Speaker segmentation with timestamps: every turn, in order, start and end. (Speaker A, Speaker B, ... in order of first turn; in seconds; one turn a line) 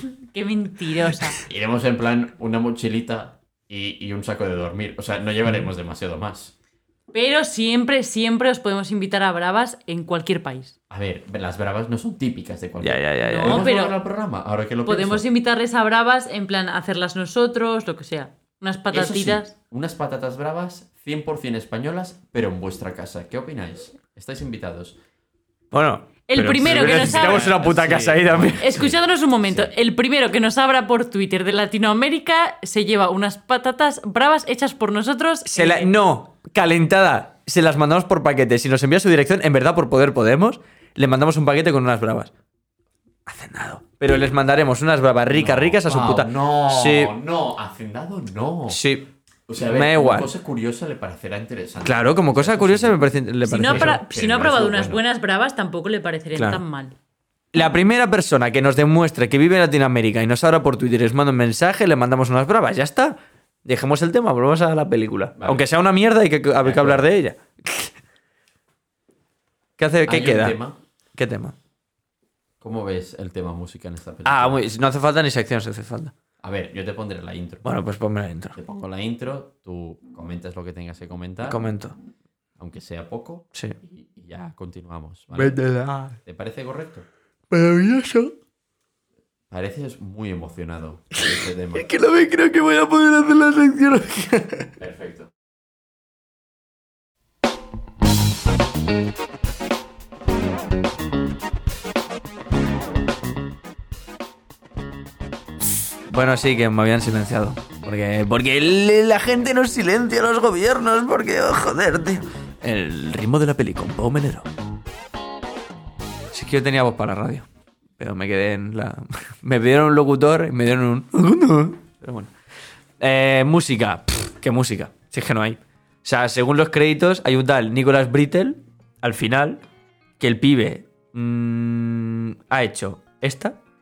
Speaker A: 0.3-1.4
Speaker B: 1.4-6.5
Speaker A: 7.1-10.8
Speaker B: 10.9-15.2
Speaker C: 12.8-13.7
Speaker A: 13.2-14.0
Speaker A: 14.9-19.5
Speaker B: 18.9-25.0
Speaker C: 25.7-28.9
Speaker A: 26.3-27.5
Speaker B: 26.6-29.7
Speaker A: 28.6-35.9
Speaker C: 35.5-42.3
Speaker C: 43.3-47.1
Speaker B: 45.3-48.8
Speaker C: 48.7-49.1
Speaker B: 49.5-53.1
Speaker C: 49.7-50.3
Speaker C: 51.8-54.0
Speaker A: 53.4-57.0
Speaker B: 53.6-55.0
Speaker C: 56.4-56.6
Speaker C: 57.5-68.0
Speaker B: 65.4-65.6
Speaker B: 66.6-67.1
Speaker C: 69.8-70.6
Speaker B: 70.1-70.8
Speaker C: 71.1-71.5
Speaker B: 72.6-74.6
Speaker C: 74.2-76.1
Speaker B: 76.4-77.7
Speaker C: 77.6-78.6
Speaker B: 78.6-81.6
Speaker C: 81.5-82.0
Speaker B: 82.6-85.6
Speaker C: 85.3-86.2
Speaker B: 86.2-87.1
Speaker C: 87.5-88.3
Speaker B: 89.5-91.9
Speaker C: 91.2-94.7
Speaker B: 94.8-95.3
Speaker C: 106.1-114.5
Speaker C: 116.3-117.5
Speaker C: 118.0-122.3
Speaker C: 123.0-129.6
Speaker C: 130.2-133.6